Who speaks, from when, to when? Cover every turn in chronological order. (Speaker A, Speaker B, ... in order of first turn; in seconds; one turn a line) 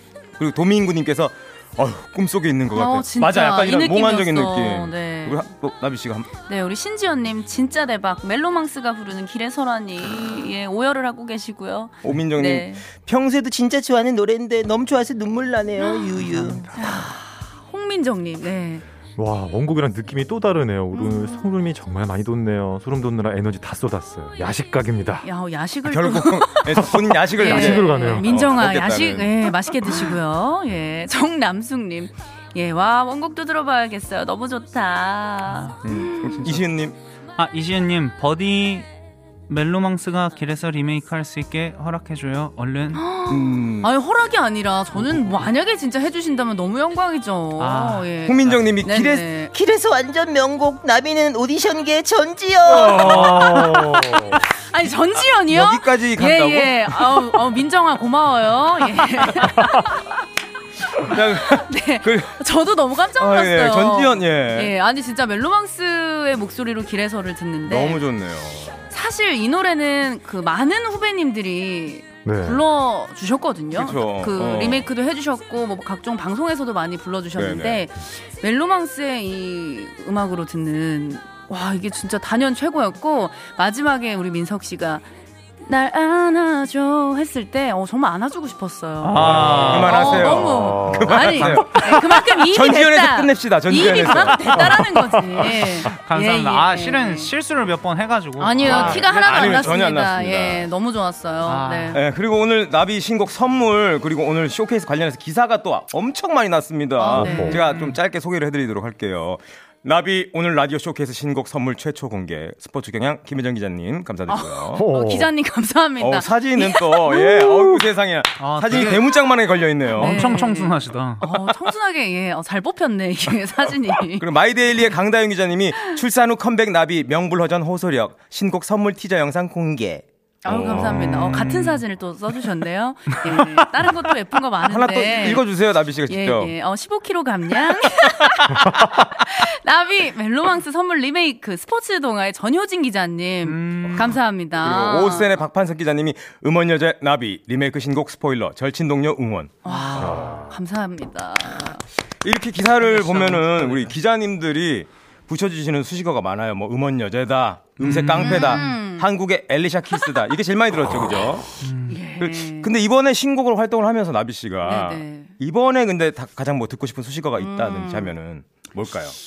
Speaker A: 0.4-6.3
Speaker B: 2.7-5.5
Speaker B: 6.5-12.8
Speaker A: 12.0-13.1
Speaker C: 13.0-17.0
Speaker B: 15.8-16.2
Speaker B: 16.7-18.9
Speaker D: 19.1-25.3
Speaker B: 20.9-21.4
Speaker B: 25.2-36.6
Speaker A: 25.9-29.5
Speaker D: 27.5-28.3
Speaker E: 35.5-35.8
Speaker A: 35.8-37.0
Speaker E: 37.4-38.9
Speaker E: 39.5-43.0
Speaker B: 42.9-49.5
Speaker A: 43.3-43.9
Speaker E: 47.6-48.7
Speaker A: 48.2-49.3
Speaker C: 49.4-53.3
Speaker B: 52.6-60.2
Speaker A: 52.8-53.8
Speaker D: 53.4-54.4
Speaker A: 55.5-57.2
Speaker A: 61.0-62.4
Speaker B: 61.0-68.0
Speaker A: 63.2-64.7
Speaker A: 67.7-68.9
Speaker B: 68.9-85.1
Speaker D: 72.2-72.6
Speaker A: 73.7-74.9
Speaker A: 77.3-77.8
Speaker B: 85.6-97.3
Speaker E: 89.0-90.3
Speaker D: 89.1-91.6
Speaker A: 89.2-94.8
Speaker E: 91.3-91.9
Speaker D: 94.7-95.4
Speaker E: 95.8-99.8
Speaker B: 98.4-102.0
Speaker A: 98.6-100.7
Speaker E: 101.4-102.0
Speaker A: 101.9-114.9
Speaker B: 107.0-107.7
Speaker D: 107.1-107.6
Speaker E: 107.3-108.0
Speaker B: 114.3-117.8
Speaker D: 114.7-115.3
Speaker A: 116.0-120.2
Speaker E: 118.4-119.2
Speaker E: 119.9-121.3
Speaker B: 120.0-124.3
Speaker A: 124.2-131.3
Speaker B: 130.4-135.5
Speaker E: 130.8-131.8
Speaker A: 134.7-136.5
Speaker B: 136.1-145.3
Speaker E: 143.4-144.2
Speaker A: 144.6-149.5
Speaker B: 149.6-151.8
Speaker E: 149.7-150.3
Speaker D: 149.9-150.6
Speaker A: 152.2-161.6
Speaker E: 152.8-153.9
Speaker E: 157.8-158.6
Speaker B: 158.2-159.1
Speaker E: 161.6-162.0
Speaker B: 161.9-162.7
Speaker A: 162.2-169.2
Speaker B: 164.6-165.3
Speaker B: 167.3-168.1